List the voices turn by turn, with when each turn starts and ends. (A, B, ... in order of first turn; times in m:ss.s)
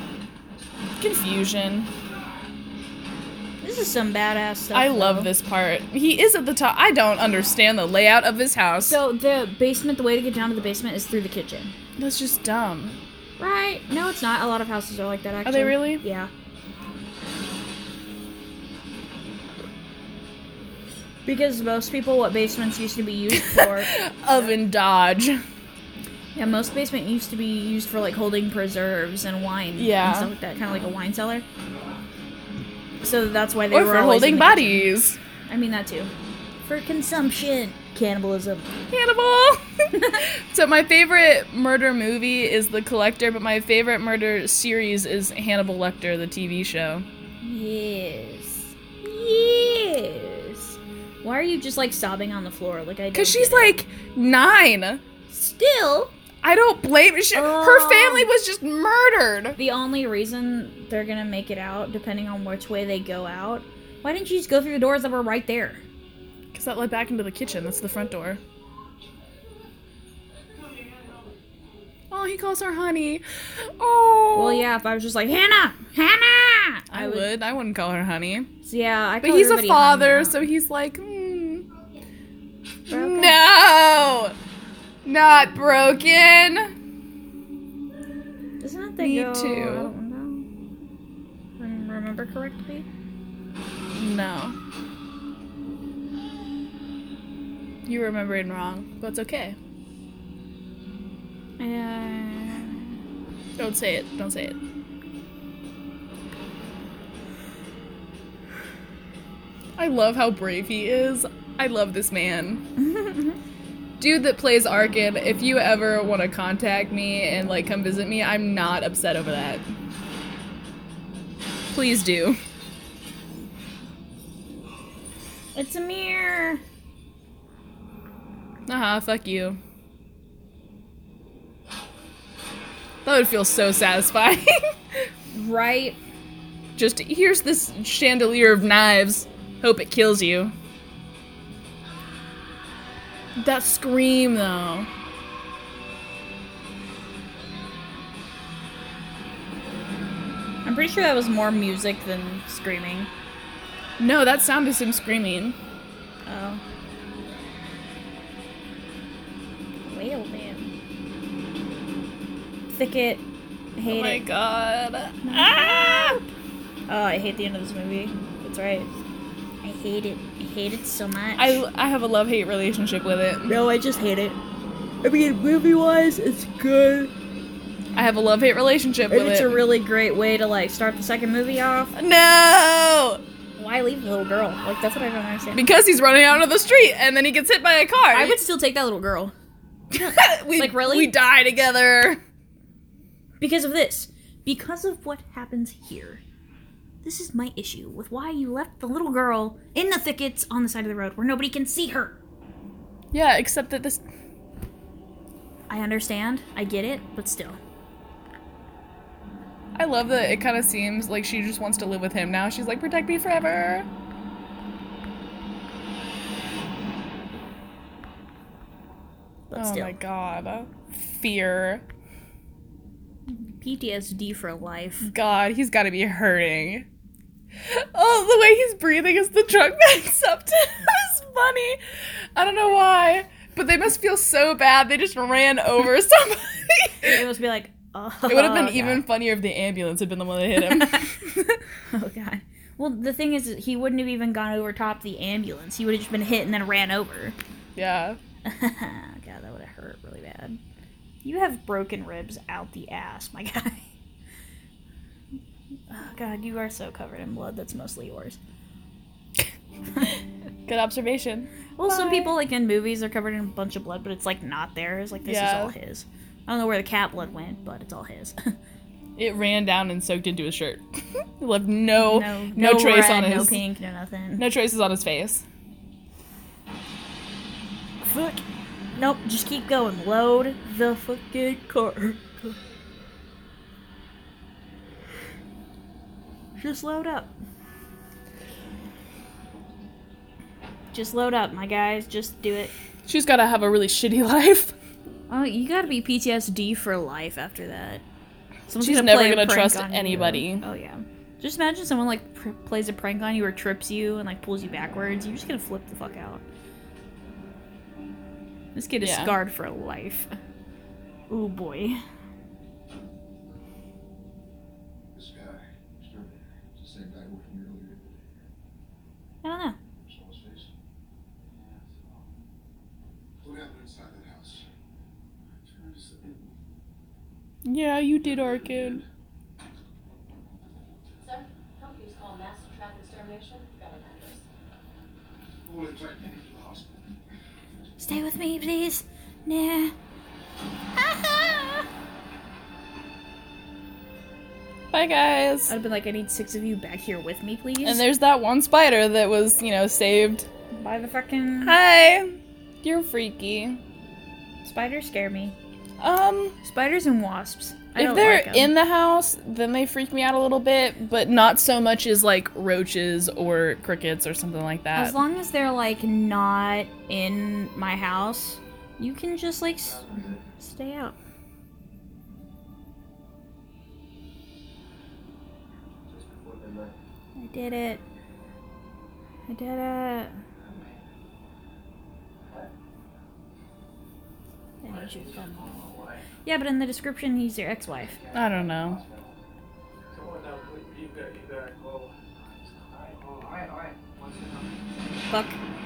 0:01.0-0:01.9 A
0:03.6-0:05.3 B
0:04.7-0:09.0 A
0:08.8-0:11.7 B
0:12.0-0:13.0 A
0:13.4-0:16.3 B
0:15.4-0:16.0 A
0:21.2-0:24.5 B
0:23.3-0:25.4 A
0:26.4-0:31.4 B
0:29.8-0:30.3 A
0:33.0-0:34.9 B
0:33.7-0:35.2 A
0:35.5-0:36.1 B
0:36.6-0:38.7 B
0:38.9-0:39.6 A
0:39.9-0:40.2 B
0:40.3-0:47.0 A
0:47.4-0:53.8 B
0:53.1-0:55.0 A
0:55.3-0:56.1 B
0:56.4-0:59.6 A
0:57.3-0:58.3 B
0:59.6-1:05.8 B
1:06.5-1:08.4 A
1:10.7-1:11.3 C
1:12.1-1:14.7 A
1:14.3-1:17.3 B
1:16.9-1:18.5 A
1:18.6-1:20.4 B
1:19.2-1:21.6 A
1:22.9-1:23.4 B
1:22.9-1:24.3 A
1:25.0-1:26.7 A
1:28.6-1:30.5 B
1:29.0-1:29.9 A
1:31.6-1:32.9 B
1:33.9-1:34.6 A
1:37.8-1:39.6 A
1:41.6-1:43.0 B
1:43.6-1:44.6 A
1:49.8-1:52.6 A
1:52.8-1:53.4 B
1:54.0-1:59.6 A
2:01.7-2:02.4 A
2:05.5-2:06.6 B
2:08.7-2:09.6 A
2:13.0-2:15.1 A
2:15.3-2:16.0 B
2:16.8-2:20.5 A
2:23.4-2:24.9 A
2:30.6-2:33.1 B
2:34.0-2:35.6 A
2:36.2-2:36.6 B
2:39.8-2:40.7 B
2:42.7-2:43.2 B
2:43.8-2:44.2 B
2:43.9-2:46.2 A
2:45.2-2:46.3 B
2:46.9-2:48.9 B
2:49.6-2:51.6 B
2:51.4-2:53.5 A
2:53.5-2:54.4 B
2:55.0-2:57.1 B
2:57.9-2:59.6 A
2:59.1-3:01.9 B
3:01.9-3:03.2 A
3:03.6-3:05.6 B
3:05.5-3:08.4 A
3:08.1-3:09.3 B
3:09.9-3:12.2 A
3:09.9-3:11.1 B
3:13.4-3:16.2 B
3:17.0-3:22.2 B
3:23.1-3:24.0 A
3:25.7-3:27.6 B
3:29.7-3:33.9 A
3:39.5-3:40.0 B
3:39.6-3:41.8 A
3:43.3-3:45.1 B
3:45.1-3:46.8 A
3:47.6-3:51.8 A
3:52.3-3:57.2 A
3:57.0-3:59.0 B
3:58.3-4:01.6 A
4:00.8-4:01.1 B
4:01.9-4:07.4 B
4:07.8-4:08.2 A
4:08.4-4:10.6 B
4:11.2-4:13.9 B
4:15.9-4:18.4 B
4:20.6-4:22.3 A
4:21.8-4:28.5 B
4:25.2-4:25.7 A
4:29.2-4:33.6 A
4:32.0-4:34.4 B
4:34.4-4:35.4 A
4:38.0-4:38.4 B
4:38.9-4:42.6 B
4:46.6-4:47.3 B
4:50.9-4:52.7 B
4:53.0-4:54.7 A
4:55.3-4:58.0 B
4:58.7-5:06.4 B
4:58.7-5:00.6 A
5:08.7-5:10.3 B
5:09.0-5:09.4 A
5:11.3-5:12.0 B
5:15.1-5:18.1 D
5:19.4-5:19.8 B
5:19.9-5:20.7 D
5:21.4-5:22.2 C
5:23.4-5:24.6 D
5:25.8-5:26.5 C
5:25.8-5:26.1 D
5:27.6-5:29.0 A
5:31.2-5:34.4 E
5:35.6-5:37.2 D
5:38.0-5:39.9 B
5:40.9-5:41.8 B
5:44.9-5:45.7 A
5:45.7-5:48.0 B
5:47.8-5:50.5 A
5:50.7-5:51.8 B
5:51.6-5:53.8 A
5:54.6-5:55.5 B
5:56.0-5:56.5 A
5:56.6-5:58.7 B
5:58.0-6:05.2 A
6:04.9-6:10.0 B
6:09.8-6:10.5 D
6:10.6-6:11.2 B
6:16.1-6:17.0 D
6:17.4-6:18.0 B
6:19.5-6:20.3 B
6:24.8-6:25.7 B
6:24.8-6:26.2 C
6:26.4-6:28.2 B
6:28.3-6:29.0 A
6:28.5-6:29.2 C
6:30.1-6:34.7 C
6:35.3-6:35.6 B